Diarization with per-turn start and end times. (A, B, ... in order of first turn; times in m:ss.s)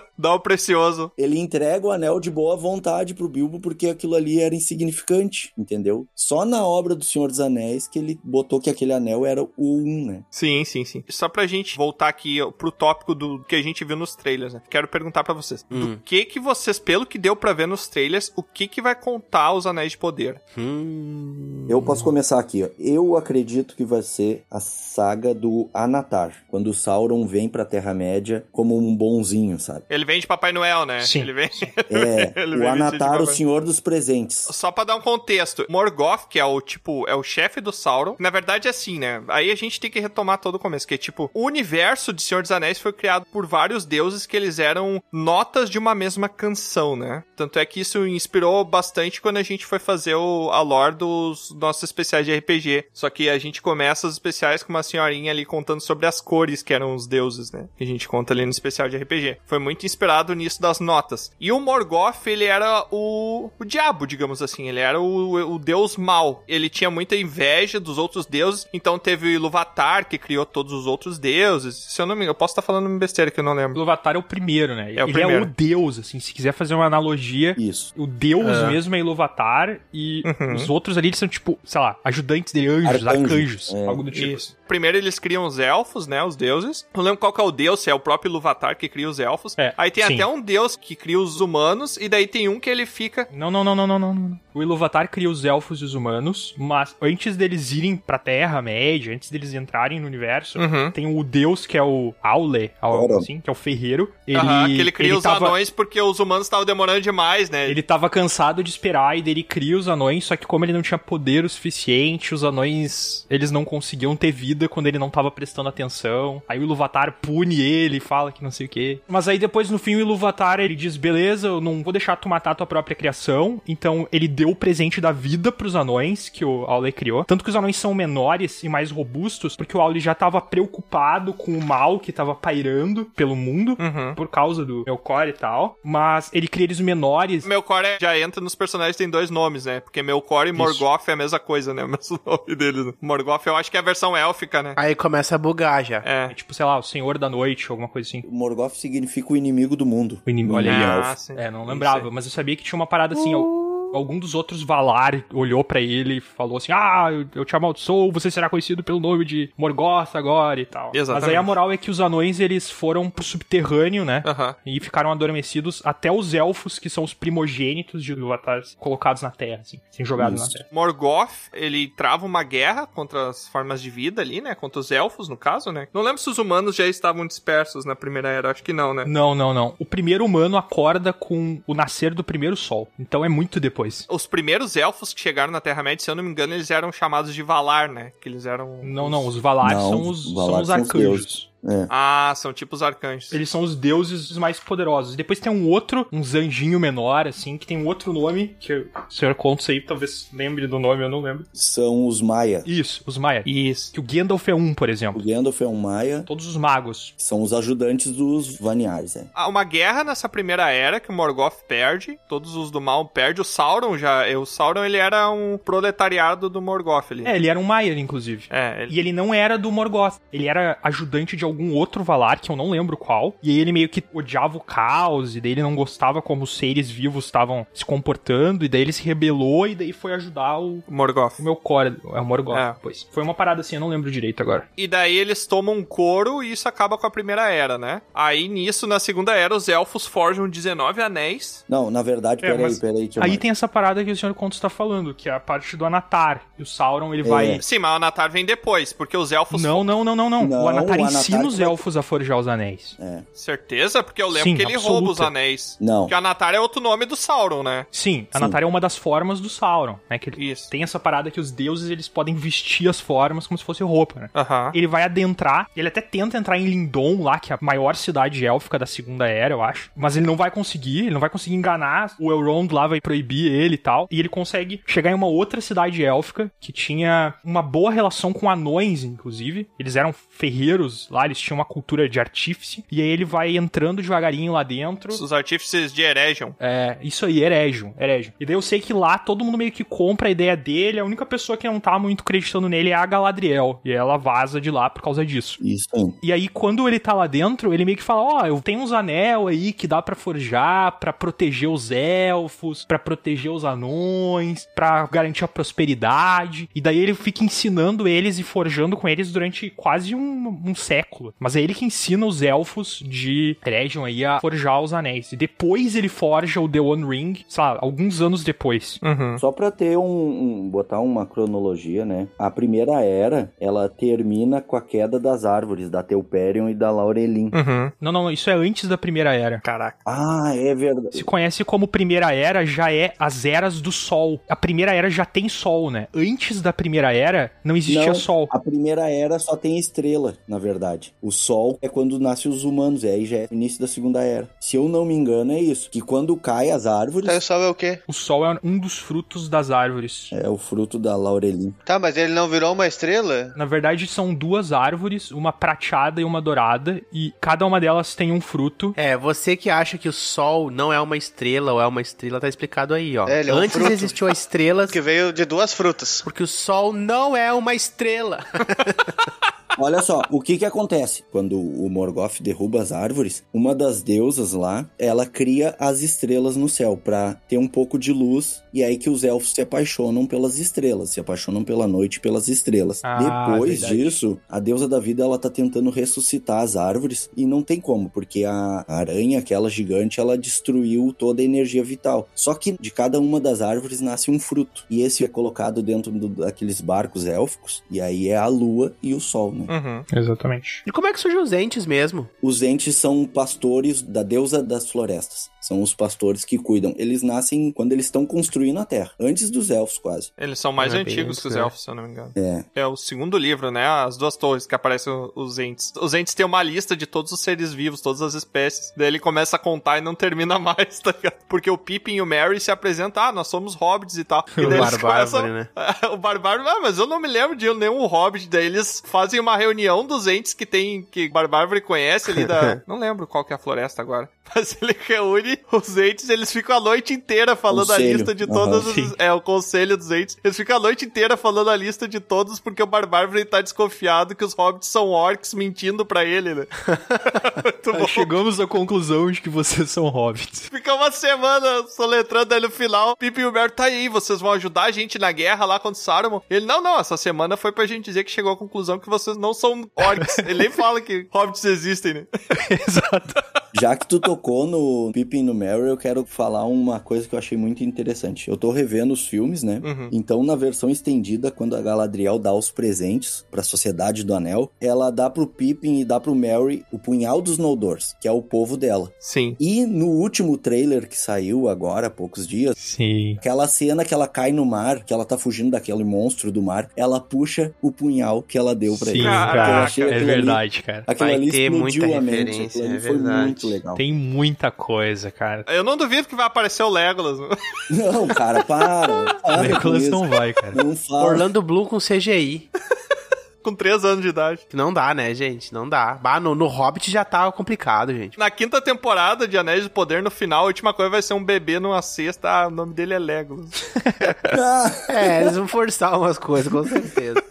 0:00.2-0:01.1 A
0:01.2-0:10.2 B
0:10.3-0:20.4 A
0:15.7-0:16.0 C
0:20.5-0:22.1 C
0:21.7-0:29.8 B
0:29.9-0:33.4 A
0:31.0-0:31.7 D
0:31.9-0:34.5 B
0:34.5-1:13.8 A
1:13.7-1:24.5 D
1:15.0-1:15.5 A
1:17.6-1:17.9 B
1:18.4-1:18.8 C
1:20.2-1:20.7 A
1:22.8-1:24.0 B
1:24.1-1:33.3 A
1:29.6-1:30.3 D
1:33.3-1:45.6 D
1:40.6-1:41.0 A
1:42.9-1:43.3 B
1:44.3-1:47.8 A
1:47.7-2:17.5 D
2:13.8-2:14.2 A
2:17.4-2:24.8 A
2:20.6-2:20.8 D
2:24.8-2:26.1 C
2:26.0-2:26.4 A
2:26.3-2:28.3 D
2:28.2-2:31.2 B
2:30.3-2:50.7 D
2:30.6-2:32.1 A
2:33.2-2:33.9 C
2:40.9-2:41.6 A
2:44.2-2:44.6 A
2:50.2-2:50.6 B
2:50.7-2:59.1 A
2:59.0-3:04.1 D
3:04.1-3:09.3 A
3:08.8-3:11.5 D
3:09.6-3:11.9 B
3:11.9-3:13.4 A
3:13.3-3:21.5 D
3:21.6-3:22.7 B
3:22.6-3:25.2 D
3:23.4-3:23.9 A
3:25.1-3:26.3 B
3:26.3-3:27.1 D
3:27.2-3:29.3 B
3:29.4-3:37.3 A
3:37.2-3:54.7 D
3:38.5-3:39.0 A
3:50.9-3:51.4 A
3:52.5-3:52.8 A
3:54.8-4:01.6 A
4:01.7-4:03.4 B
4:02.4-4:07.6 D
4:07.2-4:07.6 B
4:07.6-4:09.9 A
4:09.5-4:13.0 D
4:10.4-4:11.8 B
4:13.0-4:13.2 B
4:13.4-4:17.9 A
4:14.3-4:15.3 D
4:15.8-4:16.1 B
4:17.9-4:45.2 D
4:18.3-4:18.6 B
4:20.4-4:20.7 A
4:24.3-4:24.8 A
4:45.1-4:46.6 A
4:46.6-4:55.6 D
4:55.6-4:56.2 B
4:56.2-5:19.0 D
5:19.0-5:19.4 A
5:19.4-5:27.6 B
5:27.5-5:27.9 A
5:28.0-5:29.6 D
5:29.6-5:30.0 A
5:30.1-5:31.3 B
5:31.1-5:38.5 D
5:37.9-5:47.4 B
5:47.2-5:48.0 E
5:48.1-5:50.3 D
5:50.3-5:51.8 B
5:51.9-5:53.6 E
5:53.6-5:59.0 D
5:59.0-6:05.0 C
6:03.2-6:04.4 E
6:04.9-6:06.2 E
6:06.2-6:09.1 C
6:09.8-6:39.7 B
6:23.0-6:24.2 D
6:39.7-6:40.1 A
6:40.1-6:40.8 D
6:40.9-6:42.3 C
6:42.4-6:50.3 B
6:50.4-7:26.7 A
6:50.8-6:51.7 C
6:52.4-6:52.7 B
7:04.5-7:05.0 D
7:04.6-7:05.7 C
7:12.4-7:12.8 C
7:17.7-7:18.9 B
7:18.8-7:19.1 D
7:27.4-7:28.3 A
7:27.9-7:30.7 D
7:30.7-7:42.3 A
7:40.0-7:40.6 D
7:42.5-7:43.4 D
7:43.7-8:02.8 B
7:49.8-7:50.1 A
7:59.2-7:59.6 A
8:02.8-8:03.4 D
8:03.4-8:14.0 B
8:08.9-8:11.1 D
8:09.2-8:10.1 A
8:11.2-8:13.8 C
8:14.0-8:15.7 D
8:15.7-8:17.5 A
8:17.9-8:21.5 B
8:19.5-8:20.8 D
8:21.2-8:22.7 C
8:23.6-8:24.6 A
8:24.7-8:28.4 C
8:28.4-8:33.8 A
8:34.5-8:35.6 B
8:35.1-8:37.4 C